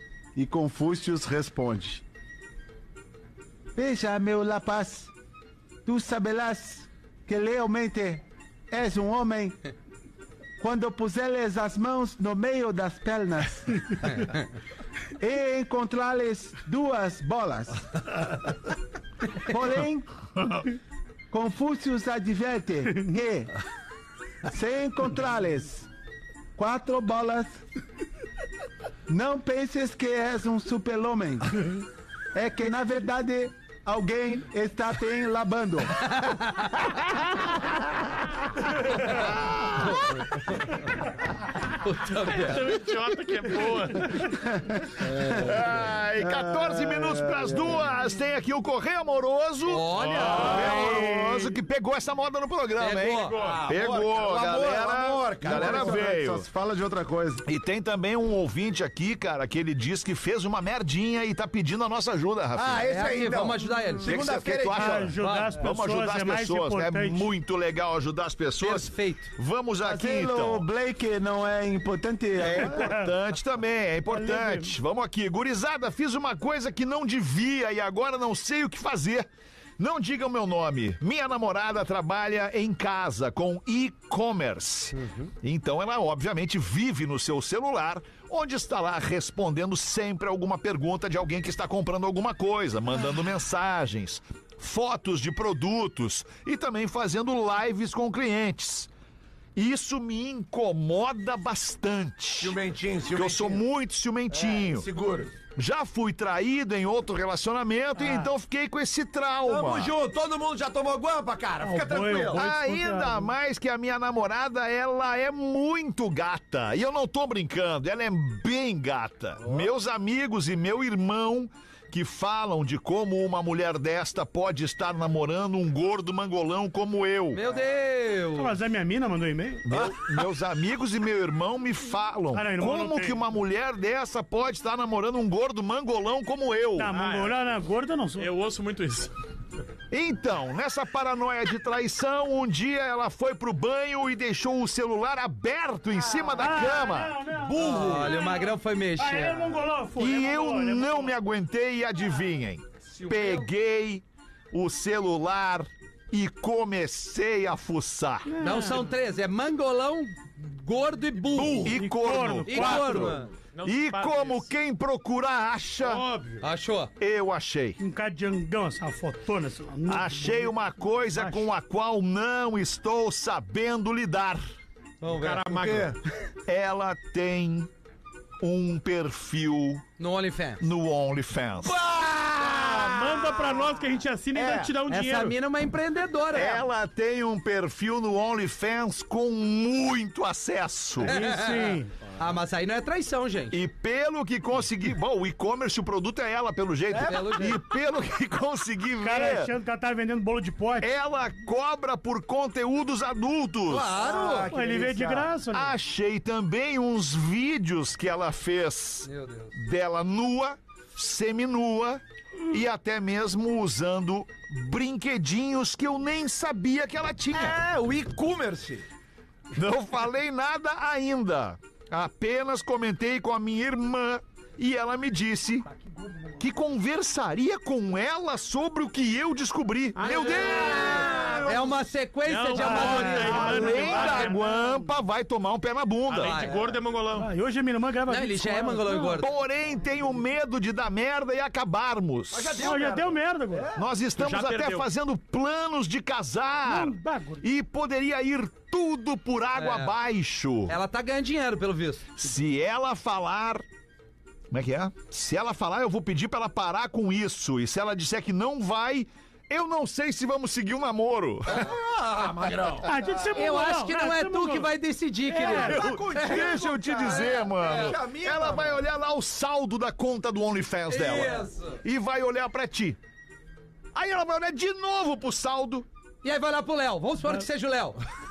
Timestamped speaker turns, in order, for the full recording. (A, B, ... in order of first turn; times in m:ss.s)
0:00.3-0:02.0 A
0:03.7-0:05.1 A
0:05.8-0:09.6 A
0:10.6-0:13.8 A
0:15.2-0:17.8 A
0:19.4-0:20.2 A
0:21.3-0:23.5 A
0:24.4-0:25.9 A
0:26.6-0:27.6 A
0:29.1-0:31.6 A
0:32.3-0:36.2 A
0:36.0-0:36.9 B
0:39.1-0:40.0 C
0:41.8-0:42.6 B
0:42.1-0:44.5 D
0:45.0-0:45.6 A
0:45.3-0:56.5 C
0:46.2-0:47.8 A
0:49.6-0:51.0 B
0:50.0-0:50.6 D
0:50.5-0:51.6 E
0:52.8-0:53.4 B
0:53.2-0:53.6 D
0:53.3-0:56.1 F
0:55.4-0:57.4 A
0:57.4-1:02.9 C
1:02.5-1:05.1 F
1:02.8-1:04.2 B
1:04.0-1:10.6 C
1:04.7-1:07.3 E
1:05.2-1:05.6 B
1:08.6-1:09.3 B
1:09.8-1:12.8 A
1:12.4-1:38.9 C
1:12.7-1:13.1 E
1:14.1-1:14.8 E
1:24.9-1:25.3 B
1:39.6-1:42.6 C
1:42.4-1:43.6 F
1:43.1-1:44.9 C
1:44.3-1:45.4 F
1:45.5-1:49.9 C
1:48.0-1:48.3 F
1:49.4-1:52.4 F
1:51.6-1:53.3 E
1:52.3-2:07.4 C
2:07.3-2:08.6 B
2:08.4-2:09.7 E
2:09.6-2:16.9 C
2:09.7-2:10.2 F
2:12.3-2:13.2 E
2:16.8-2:18.3 E
2:16.9-2:17.4 D
2:18.1-2:19.1 D
2:19.9-2:27.2 C
2:26.0-2:26.4 F
2:26.3-2:31.2 E
2:27.4-2:28.2 F
2:27.6-2:29.4 B
2:30.0-2:38.3 C
2:32.8-2:33.5 F
2:38.3-2:38.9 E
2:38.4-2:41.7 B
2:41.3-2:41.7 F
2:41.4-2:43.1 C
2:41.7-2:43.2 E
2:42.4-2:43.3 B
2:43.5-2:44.5 D
2:43.6-2:46.0 C
2:45.8-2:46.4 D
2:46.4-2:46.9 B
2:47.0-2:47.8 C
2:47.8-2:50.6 E
2:49.9-2:54.4 C
2:51.1-2:51.5 E
2:55.0-2:55.9 B
2:55.0-2:55.9 D
2:55.5-2:55.9 F
2:56.5-2:57.7 C
2:58.4-2:59.8 C
3:00.0-3:00.7 B
3:00.6-3:01.8 C
3:01.6-3:03.8 F
3:02.6-3:05.3 D
3:04.3-3:04.7 F
3:04.9-3:06.6 B
3:06.3-3:11.2 C
3:11.0-3:11.9 E
3:11.0-3:13.6 B
3:13.5-3:19.5 C
3:16.9-3:17.6 F
3:16.9-3:17.6 B
3:19.0-3:21.0 E
3:20.8-3:24.0 C
3:23.7-3:24.5 B
3:23.9-3:25.4 F
3:24.5-3:25.7 E
3:25.4-3:37.6 C
3:29.0-3:29.6 B
3:37.3-3:38.9 F
3:39.5-3:45.6 C
3:46.4-3:51.7 C
3:50.0-3:51.5 D
3:50.2-3:51.5 F
3:51.4-3:54.0 B
3:52.3-3:54.4 D
3:52.6-3:55.0 E
3:52.8-3:56.5 C
3:56.1-3:57.3 D
3:56.2-3:56.7 B
3:57.2-3:59.3 E
3:58.1-3:59.3 B
3:59.2-4:02.8 C
4:02.3-4:03.9 F
4:02.5-4:03.7 E
4:03.7-4:10.8 C
4:04.2-4:04.9 D
4:06.6-4:07.4 E
4:09.6-4:09.9 B
4:10.7-4:12.1 B
4:12.2-4:13.6 C
4:14.5-4:21.7 C
4:21.5-4:22.6 B
4:21.6-4:23.1 F
4:22.8-4:24.7 E
4:23.3-4:28.0 B
4:25.3-4:26.0 E
4:25.4-4:28.8 F
4:25.6-4:33.0 C
4:30.9-4:31.8 B
4:33.9-4:35.9 C
4:36.2-4:38.0 B